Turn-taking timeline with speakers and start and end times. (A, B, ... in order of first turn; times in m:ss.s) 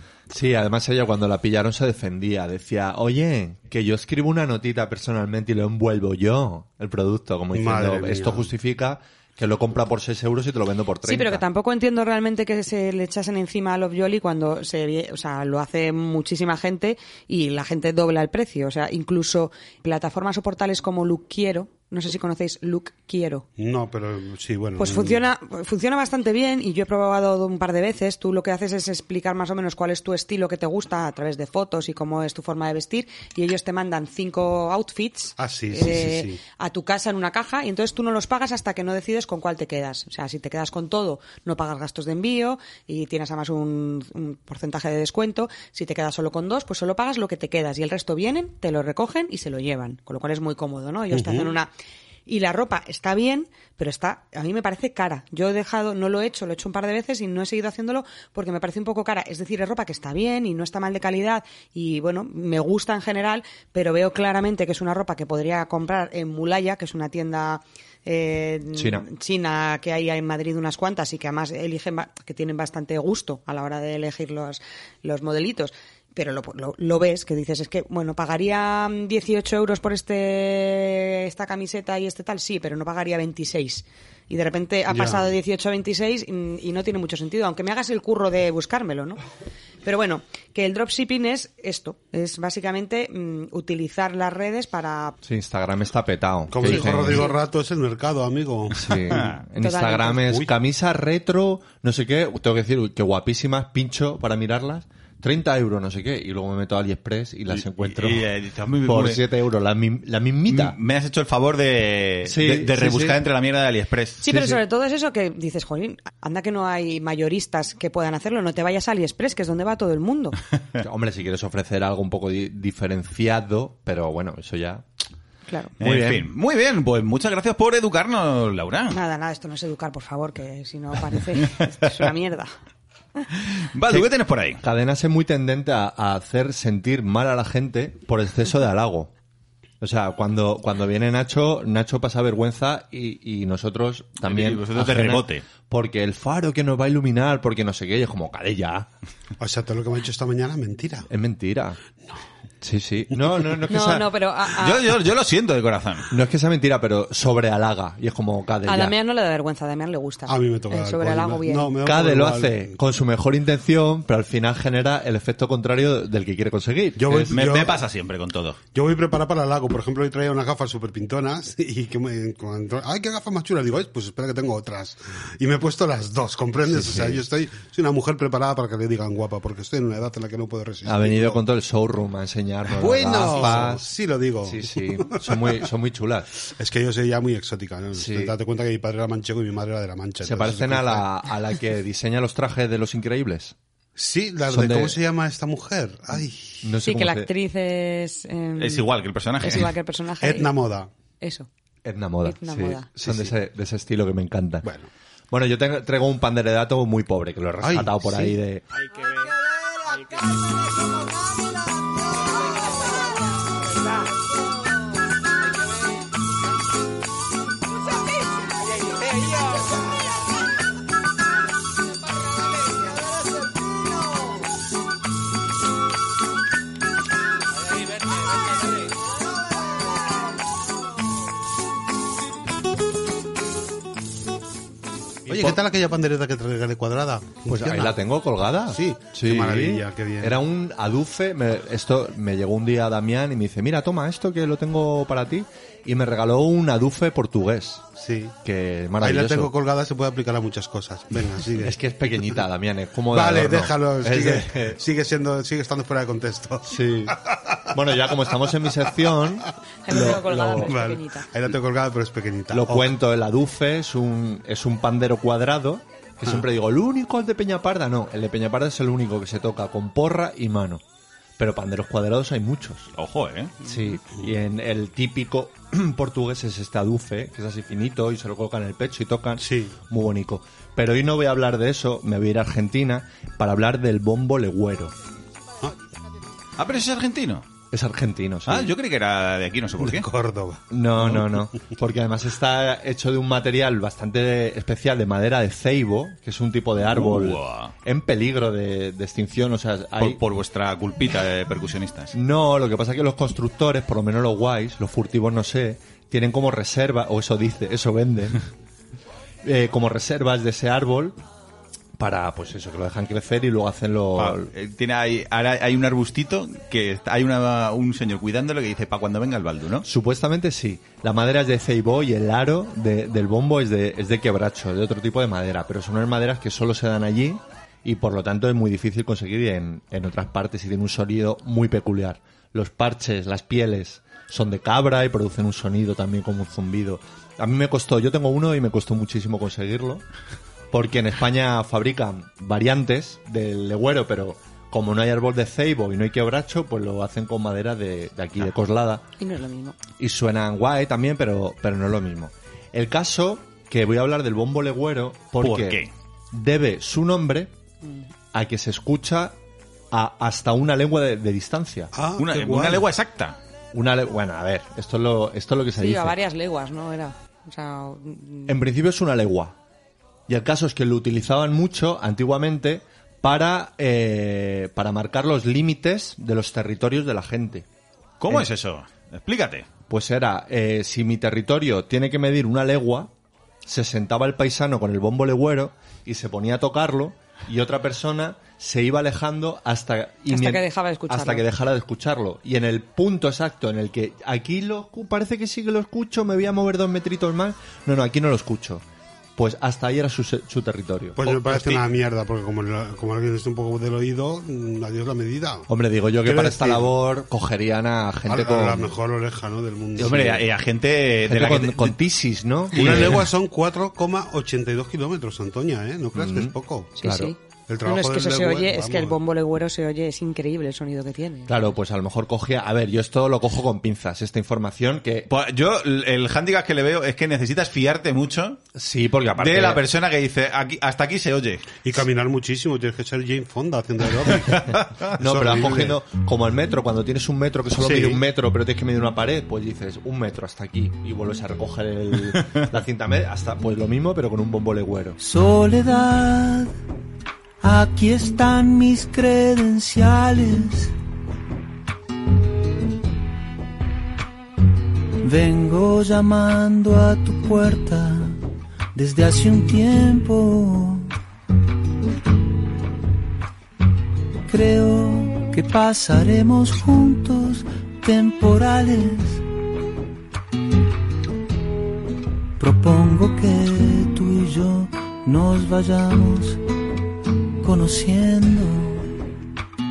0:00.3-0:11.4 A
0:07.5-0:08.5 B
0:11.0-0:23.4 C
0:23.6-0:25.2 B
0:24.8-0:51.7 C
0:35.4-0:36.4 B
0:51.1-0:51.5 B
0:52.3-1:29.2 C
1:08.7-1:09.1 A
1:24.9-1:25.3 B
1:29.8-1:35.2 C
1:35.2-1:37.3 A
1:36.5-1:39.3 B
1:36.6-1:37.3 C
1:38.7-1:48.3 A
1:39.6-1:40.3 C
1:47.6-1:49.2 D
1:48.8-1:50.8 A
1:50.5-1:54.2 D
1:52.2-1:53.2 A
1:54.2-2:00.4 C
1:54.2-1:54.6 A
2:00.8-2:04.8 A
2:05.5-2:05.7 C
2:05.8-2:06.3 A
2:05.8-2:09.0 D
2:08.9-2:12.5 C
2:13.6-2:14.6 D
2:14.6-2:19.1 A
2:19.8-2:28.9 A
2:24.2-2:25.4 D
2:29.4-2:31.1 B
2:31.1-2:31.8 A
2:32.6-2:34.1 A
2:33.7-2:34.9 C
2:34.5-2:36.1 D
2:36.1-2:38.9 A
2:38.6-2:41.7 C
2:40.3-2:42.7 B
2:41.8-2:47.4 A
2:47.0-2:47.8 B
2:47.3-2:48.6 D
2:48.7-3:01.4 B
2:56.6-2:57.2 A
3:00.8-3:03.9 A
3:02.7-3:05.6 B
3:04.4-3:06.3 A
3:06.4-3:11.0 B
3:07.9-3:08.3 A
3:10.2-3:13.6 A
3:14.0-3:16.7 B
3:14.5-3:15.0 A
3:16.6-3:17.3 A
3:16.8-3:18.9 C
3:18.6-3:19.7 D
3:19.4-3:20.5 C
3:20.2-3:20.9 B
3:21.2-3:21.5 C
3:21.8-3:24.7 A
3:22.2-3:22.9 C
3:23.0-3:23.3 B
3:24.6-3:24.9 B
3:25.3-3:28.6 A
3:27.6-3:28.3 B
3:55.3-3:58.0 B
3:55.3-3:55.6 A
3:57.4-4:07.8 A
3:58.7-4:00.4 B
4:08.0-4:08.3 B
4:08.4-4:09.5 A
4:09.0-4:12.4 B
4:11.6-4:14.8 A
4:13.1-4:18.2 B
4:16.7-4:17.2 A
4:17.7-4:20.8 A
4:19.8-4:21.3 C
4:19.9-4:22.9 B
4:22.5-4:30.8 A
4:31.4-4:32.9 A
4:33.0-4:33.6 D
4:33.6-4:44.9 A
4:39.4-4:39.7 B
4:46.6-4:47.5 D
4:47.7-4:48.7 A
4:48.5-4:50.1 D
4:49.8-4:51.4 B
4:50.7-5:00.2 A
4:56.9-4:57.7 D
5:00.0-5:02.1 D
5:02.1-5:08.4 A
5:09.4-5:11.2 A
5:12.0-5:14.5 A
5:14.2-5:19.9 D
5:19.8-5:40.0 A
5:40.7-5:49.0 A
5:49.2-5:49.8 C
5:50.0-5:57.5 A
5:55.4-5:55.9 D
5:58.3-5:59.4 A
5:59.9-6:01.9 A
6:01.9-6:02.9 B
6:02.2-6:03.4 D
6:03.7-6:06.2 A
6:05.7-6:08.5 C
6:08.5-6:09.6 A
6:10.3-6:17.7 A
6:18.2-6:19.7 D
6:19.9-6:23.1 A
6:23.6-6:38.8 A
6:30.3-6:31.4 C
6:39.4-6:41.4 A
6:41.2-6:45.7 B
6:41.4-6:41.8 D
6:45.7-6:48.9 A
6:46.2-6:46.9 B
6:48.3-6:50.4 B
6:50.0-6:50.4 A
6:50.0-6:52.0 D
6:51.3-6:53.2 A
6:52.7-6:56.9 B
6:52.7-6:53.3 D
6:56.1-6:57.3 A
6:57.0-7:01.6 C
6:57.7-6:59.2 B
7:01.5-7:05.3 A
7:05.3-7:08.6 D
7:08.7-7:09.8 A
7:09.4-7:11.7 D
7:11.8-7:16.0 B
7:14.3-7:15.1 D
7:15.2-7:25.2 A
7:17.8-7:18.2 D
7:25.2-7:26.7 E
7:27.6-7:30.9 E
7:35.2-7:38.4 E
7:38.9-7:41.1 E
7:44.4-7:49.4 E
7:52.6-7:56.6 E
7:57.6-7:59.2 E